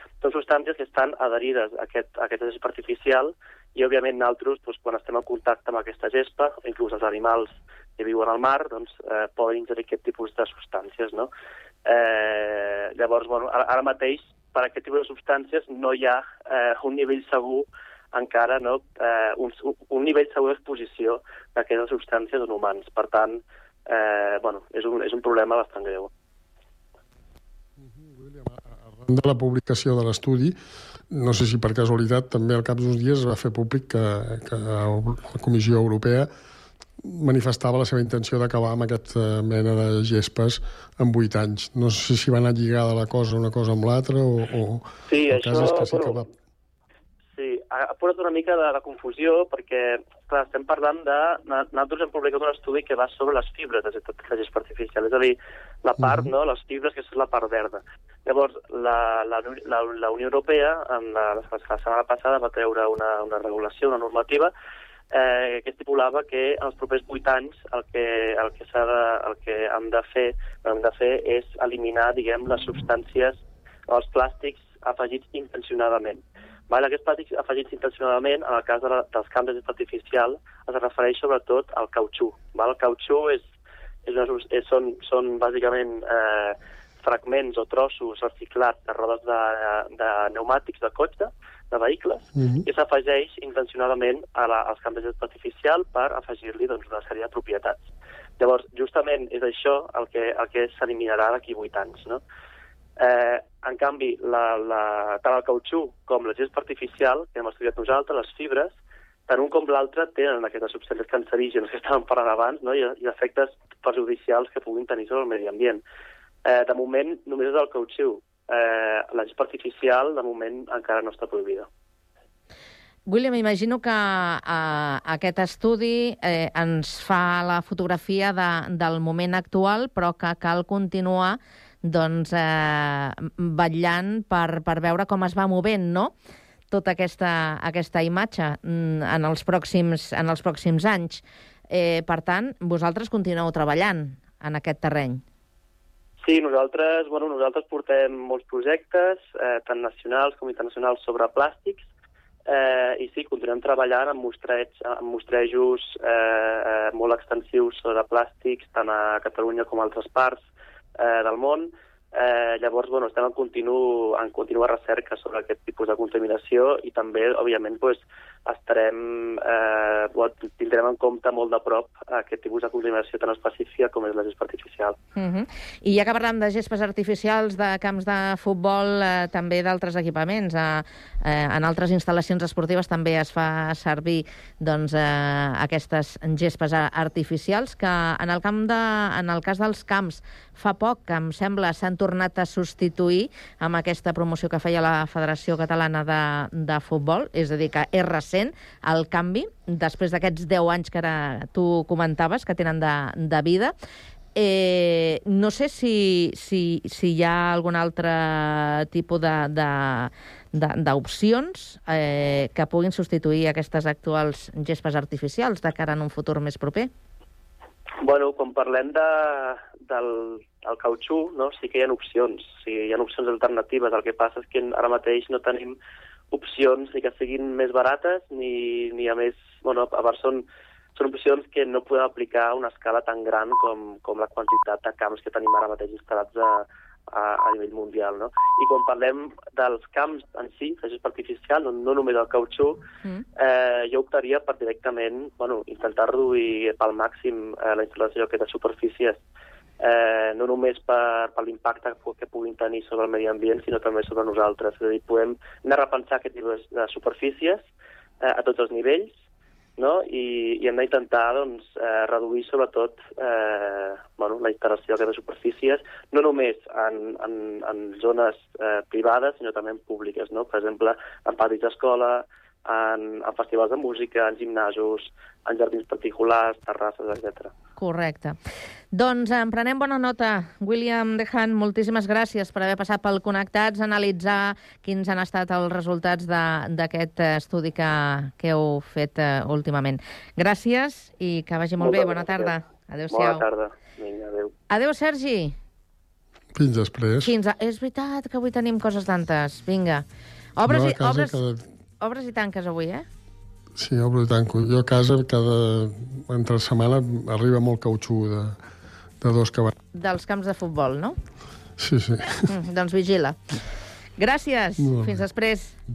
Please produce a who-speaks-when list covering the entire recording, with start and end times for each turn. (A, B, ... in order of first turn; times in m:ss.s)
0:00.2-0:11.3 A
0:11.8-0:26.1 A
0:27.8-0:30.6 B
0:31.1-0:36.3 B
0:37.0-0:46.3 B
0:45.1-0:46.2 A
0:47.3-1:04.5 A
0:56.0-0:56.3 B
1:05.1-1:23.5 A
1:24.0-1:37.8 A
1:32.4-1:32.6 B
1:38.4-1:42.2 A
1:43.0-1:48.7 A
1:49.3-1:55.8 A
1:56.4-2:01.7 A
2:03.1-2:16.1 C
2:16.7-2:25.2 C
2:26.2-2:31.9 A
2:32.4-2:40.4 A
2:41.0-2:55.0 A
2:55.2-3:23.7 C
3:24.3-3:36.9 C
3:38.0-3:45.8 A
3:46.3-4:02.8 A
4:03.4-4:09.2 A
4:09.8-4:17.6 A
4:18.2-4:19.1 A
4:19.8-4:37.5 A
4:37.8-4:38.4 C
4:38.9-4:53.4 C
4:51.8-4:52.5 A
4:53.1-4:54.5 A
4:54.7-4:55.6 C
4:56.5-4:57.3 B
4:57.2-5:00.0 C
5:00.6-5:01.4 C
5:00.6-5:01.6 B
5:02.0-5:03.0 C
5:03.8-5:08.6 B
5:09.2-5:09.7 B
5:09.9-5:11.2 C
5:11.8-5:12.4 B
5:12.5-5:13.4 C
5:14.2-5:15.8 C
5:14.8-5:15.2 B